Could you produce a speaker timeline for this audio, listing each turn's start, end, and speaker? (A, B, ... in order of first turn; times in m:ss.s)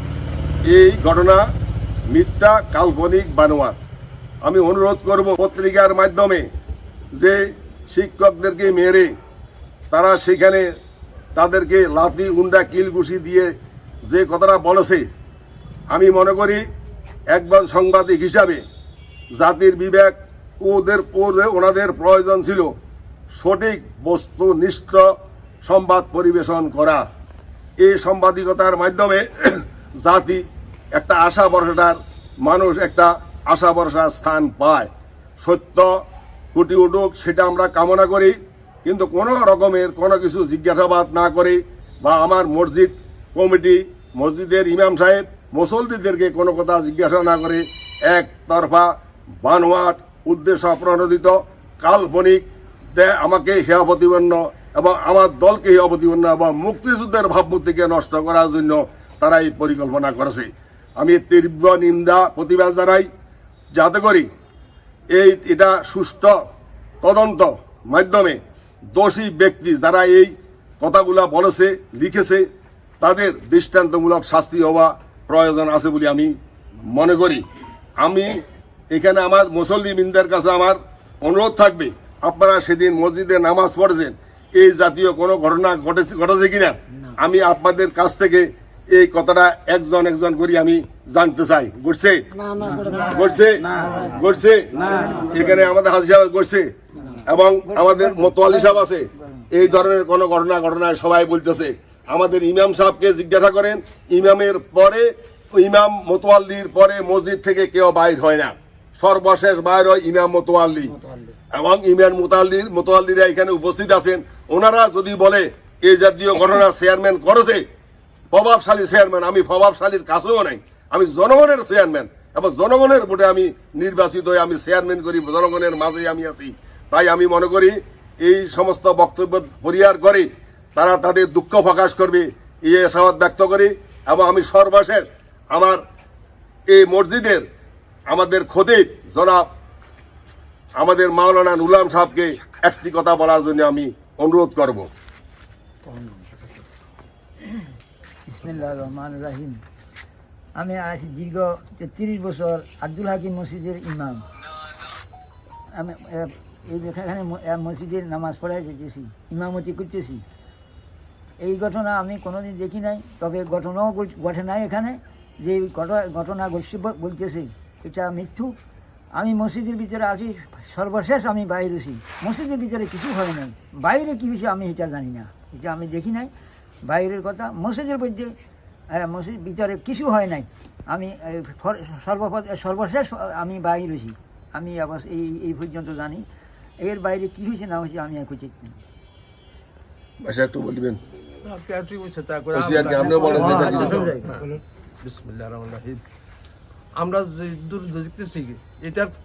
0:00.6-0:01.4 A
0:02.1-0:03.8 A
0:04.4-0:06.5 A
0:07.1-0:09.1 A
0:09.9-0:10.7 A
0:11.3-0:13.5 A
0:14.0-0:15.0 A
0:15.9-0:16.6 A
0:17.3-0:18.6 A
0:19.3-0:22.7 A
0:23.3-0:25.1 A
0:25.6-0:27.0 A
0:27.8-0:30.4 A
0:30.9-0:34.9 A
0:35.4-0:36.0 A
0:36.5-0:48.9 A
0:49.4-0:52.4 A
0:52.9-1:03.1 A
1:03.7-1:04.3 A
1:05.1-1:06.4 A
1:07.0-1:08.4 A
1:08.9-1:12.4 A
1:13.0-1:16.3 A
1:16.8-1:17.4 A
1:18.0-1:32.2 A
1:32.6-1:33.0 B
1:33.0-1:51.0 A
1:37.7-1:39.5 B
1:51.5-1:57.6 A
1:58.3-2:15.8 A
2:16.7-2:17.4 A
2:18.1-2:19.5 A
2:20.8-2:24.9 A
2:28.3-2:29.6 B
2:30.6-2:34.2 B
2:35.7-2:40.2 B
2:41.4-2:48.5 B
2:49.2-2:56.3 B
2:56.8-2:58.3 B
2:59.0-3:06.2 B
3:06.8-3:08.8 B
3:10.2-3:11.0 A
3:11.4-3:16.0 C
3:12.5-3:14.1 A
3:17.0-3:19.1 C